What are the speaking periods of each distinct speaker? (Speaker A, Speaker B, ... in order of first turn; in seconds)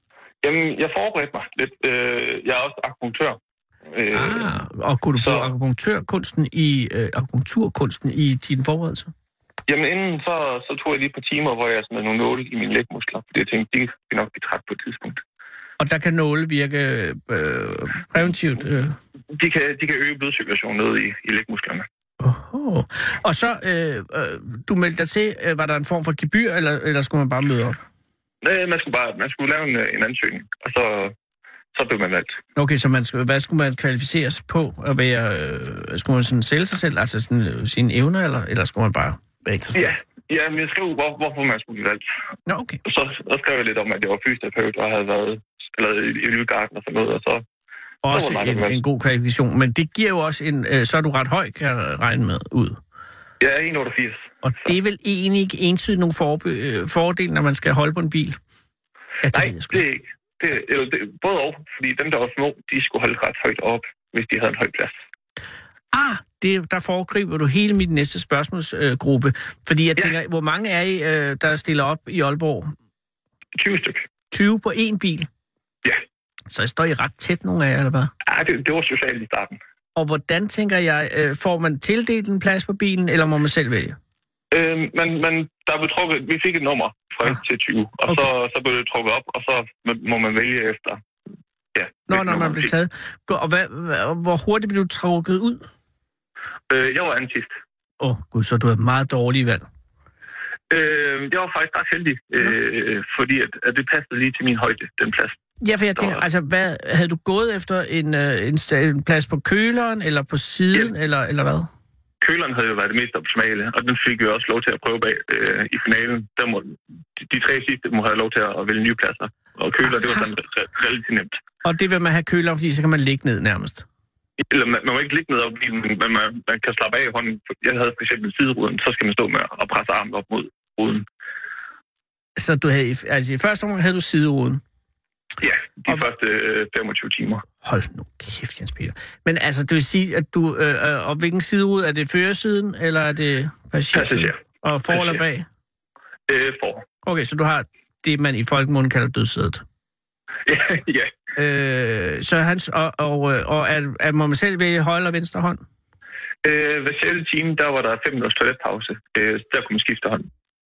Speaker A: 0.4-4.5, 5.2-5.5, 9.7-15.2, 19.3-21.9, 28.4-31.1, 31.7-32.4, 39.7-42.0, 42.8-47.4, 48.1-48.8, 53.4-54.7, 59.3-65.0, 73.6-74.0, 78.2-79.6, 84.5-91.0, 91.7-92.7, 96.7-97.5, 100.7-105.4, 106.0-106.2, 112.2-121.4, 124.4-131.1, 135.4-137.4, 143.9-145.2, 146.3-146.9, 150.4-151.2, 156.4-160.3
Speaker B: 4.1-9.1, 15.8-18.9, 22.2-27.8, 32.5-39.9, 42.5-42.8, 48.0-52.8, 54.4-58.4, 59.2-59.8, 65.9-72.7, 74.3-75.3, 76.5-78.1, 80.0-84.0, 92.1-95.7, 98.0-99.6, 105.6-111.7, 119.9-120.2, 121.6-123.9, 132.4-134.6, 137.6-145.4, 147.0-149.6, 151.4-155.6